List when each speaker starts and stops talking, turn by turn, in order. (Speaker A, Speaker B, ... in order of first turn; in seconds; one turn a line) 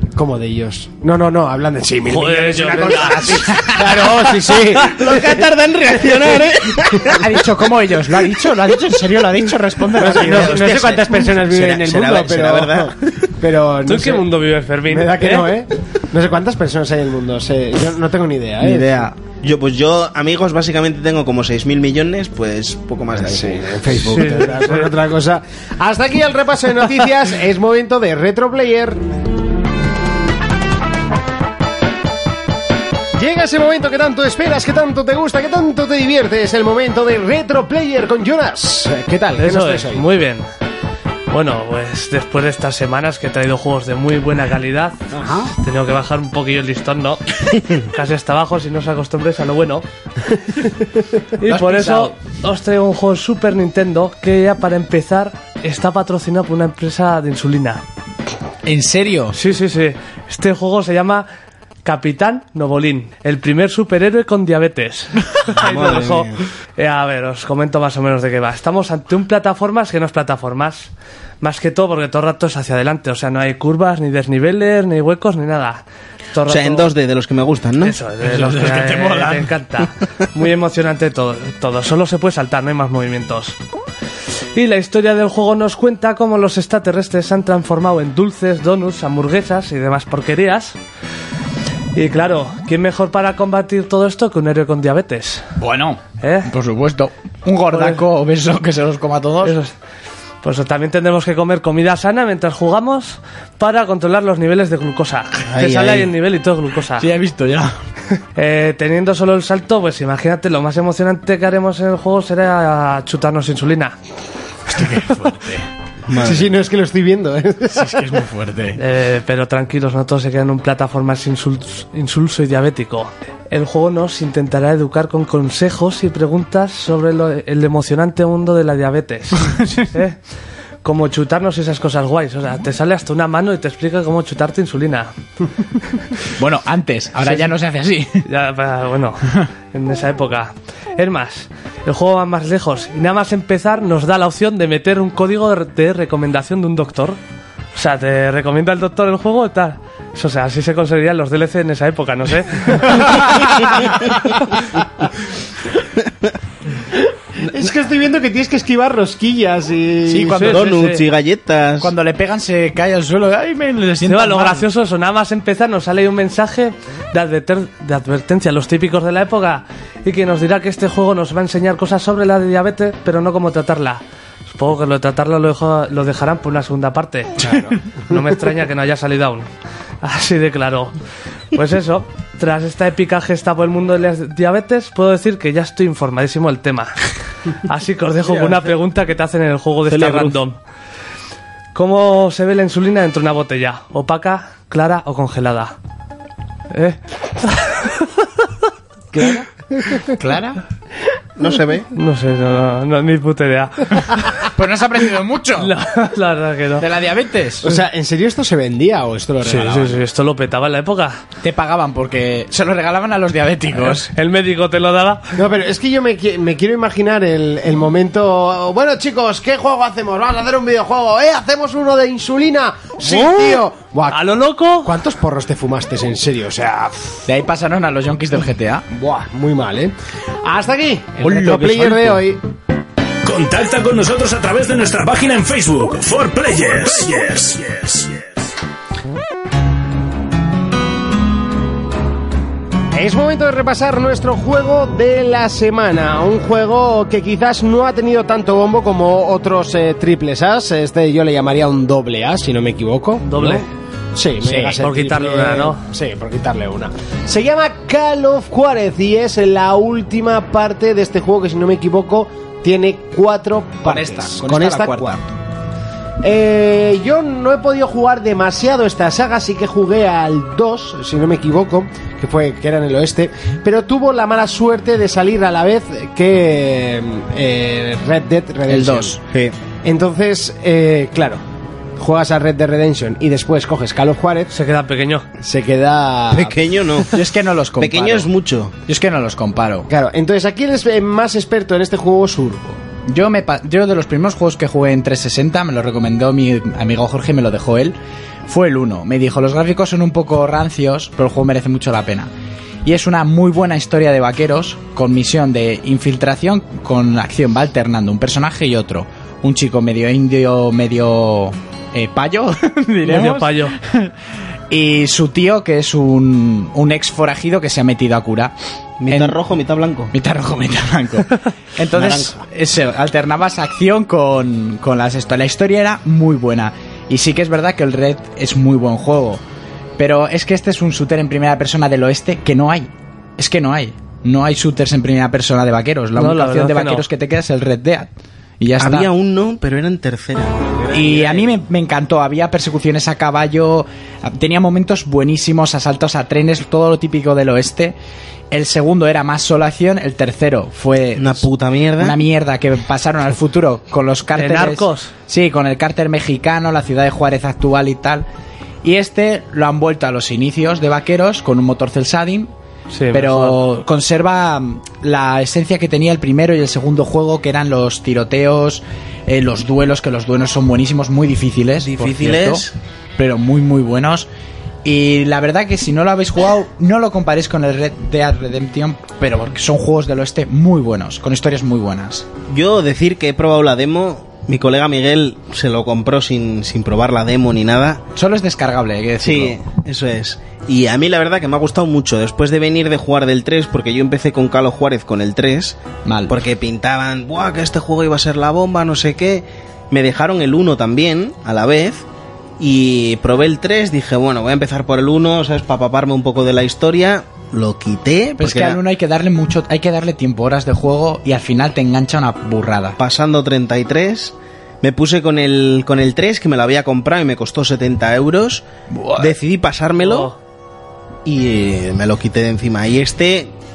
Speaker A: 0.1-5.5
Speaker B: 2.1-4.1
Speaker C: 3.5-3.9
Speaker D: 4.8-7.2
Speaker A: 6.0-6.4
Speaker C: 7.1-10.8
Speaker A: 9.9-14.3
Speaker D: 10.1-12.9
Speaker B: 13.8-15.5
Speaker A: 14.9-19.1
Speaker D: 18.6-24.2
Speaker A: 23.2-29.0
Speaker B: 23.9-24.9
Speaker A: 33.1-40.0
Speaker B: 39.4-40.4
Speaker B: 41.3-45.0
Speaker B: 45.6-49.8
Speaker B: 51.4-57.8
Speaker C: 51.4-52.1
Speaker C: 58.6-59.4
Speaker B: 59.3-61.2
Speaker B: 61.8-75.8
Speaker D: 65.5-66.4
Speaker B: 76.3-76.9
Speaker D: 76.5-78.0
Speaker B: 77.8-83.5
Speaker C: 78.2-79.5
Speaker B: 84.5-90.8
Speaker B: 91.9-95.4
Speaker C: 95.6-99.6
Speaker B: 96.2-96.5
Speaker B: 97.7-98.0
Speaker B: 99.4-99.7
Speaker B: 100.4-107.1
Speaker D: 105.5-106.1
Speaker C: 107.0-107.7
Speaker B: 108.3-113.9
Speaker C: 114.7-115.7
Speaker D: 116.1-116.5
Speaker A: 116.1-118.0
Speaker C: 117.7-118.8
Speaker B: 118.8-130.2
Speaker C: 129.6-129.8
Speaker B: 130.8-135.1
Speaker C: 136.4-138.3
Speaker B: 138.2-147.2
Speaker B: 147.7-153.4
Speaker A: 157.4-160.5
Speaker C: 160.1-160.8
Speaker B: 160.3-161.0
Speaker D: 160.5-161.9
Speaker C: 161.8-164.6
Speaker B: 164.1-177.5
Speaker A: 177.4-178.1
Speaker B: 178.1-179.5
Speaker B: 180.0-180.9
Speaker B: 181.5-187.0
Speaker B: 187.6-190.6
Speaker D: 189.9-190.3
Speaker B: 191.7-195.7
Speaker B: 196.7-198.1
Speaker A: 199.1-200.1
Speaker C: 200.1-200.6
Speaker D: 201.4-201.9
Speaker B: 201.9-204.5
Speaker C: 204.5-205.7
Speaker B: 205.6-206.8
Speaker C: 206.8-207.8
Speaker A: 207.6-210.0
Speaker B: 209.4-211.2
Speaker C: 211.4-214.1
Speaker B: 213.9-215.3
Speaker A: 215.3-224.2
Speaker B: 223.0-224.9
Speaker A: 224.8-227.2
Speaker C: 227.2-228.8
Speaker A: 228.9-232.4
Speaker C: 231.2-232.2
Speaker E: 233.2-238.3
Speaker A: 242.9-265.2
Speaker B: 253.2-253.7
Speaker C: 254.4-254.8
Speaker B: 254.8-255.8
Speaker C: 263.8-265.2
Speaker A: 266.2-279.2
Speaker C: 278.7-279.2
Speaker D: 279.3-279.5
Speaker A: 279.8-281.4
Speaker A: 282.0-284.5
Speaker B: 284.5-285.2
Speaker A: 285.4-286.6
Speaker D: 286.3-287.1
Speaker C: 287.1-288.3
Speaker D: 287.8-288.7
Speaker C: 288.9-289.9
Speaker A: 289.9-292.8
Speaker C: 293.1-302.3
Speaker C: 302.8-314.1
Speaker B: 313.0-313.7
Speaker C: 314.7-318.5
Speaker D: 319.0-320.1
Speaker C: 319.1-319.4
Speaker C: 320.1-329.4
Speaker D: 321.9-322.4
Speaker C: 330.0-339.1
Speaker B: 336.1-337.0
Speaker D: 338.8-341.4
Speaker C: 340.9-347.9
Speaker C: 348.5-351.5
Speaker D: 351.2-352.2
Speaker C: 352.0-358.2
Speaker B: 354.4-355.1
Speaker C: 358.8-362.5
Speaker B: 362.9-363.6
Speaker C: 363.1-374.3
Speaker D: 371.8-372.7
Speaker C: 374.8-382.3
Speaker D: 382.5-388.0
Speaker C: 388.1-389.6
Speaker D: 389.2-402.0
Speaker C: 396.0-396.4
Speaker D: 402.6-408.8
Speaker C: 408.4-413.0
Speaker D: 413.0-418.6
Speaker C: 418.9-419.3
Speaker D: 419.2-420.3
Speaker B: 420.0-420.3
Speaker D: 421.2-423.5